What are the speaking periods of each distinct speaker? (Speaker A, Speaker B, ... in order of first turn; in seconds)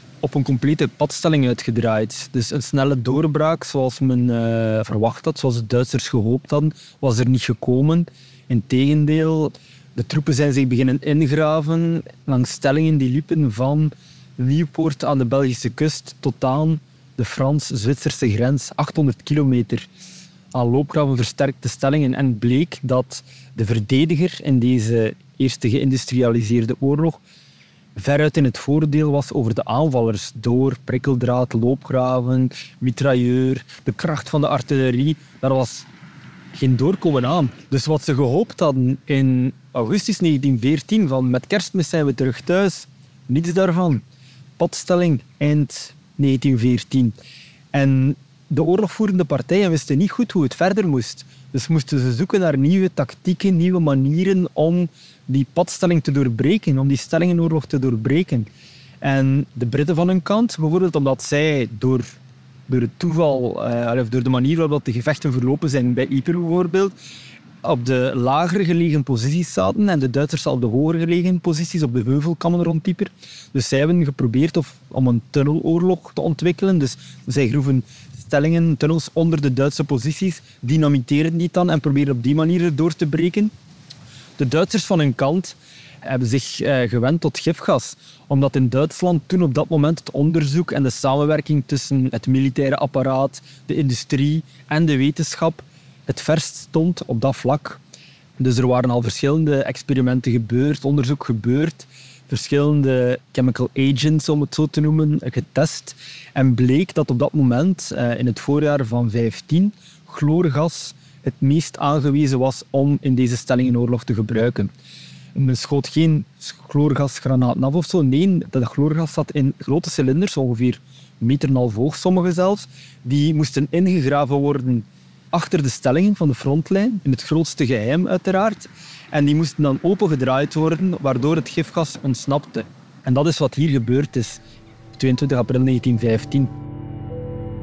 Speaker A: 0.2-19.9, 20.5-27.2, 27.9-35.9, 36.5-44.0, 44.6-47.1, 47.7-58.5, 59.0-62.1, 62.7-66.9, 67.6-83.5, 84.4-97.8, 98.4-114.7, 115.3-134.4, 135.0-136.5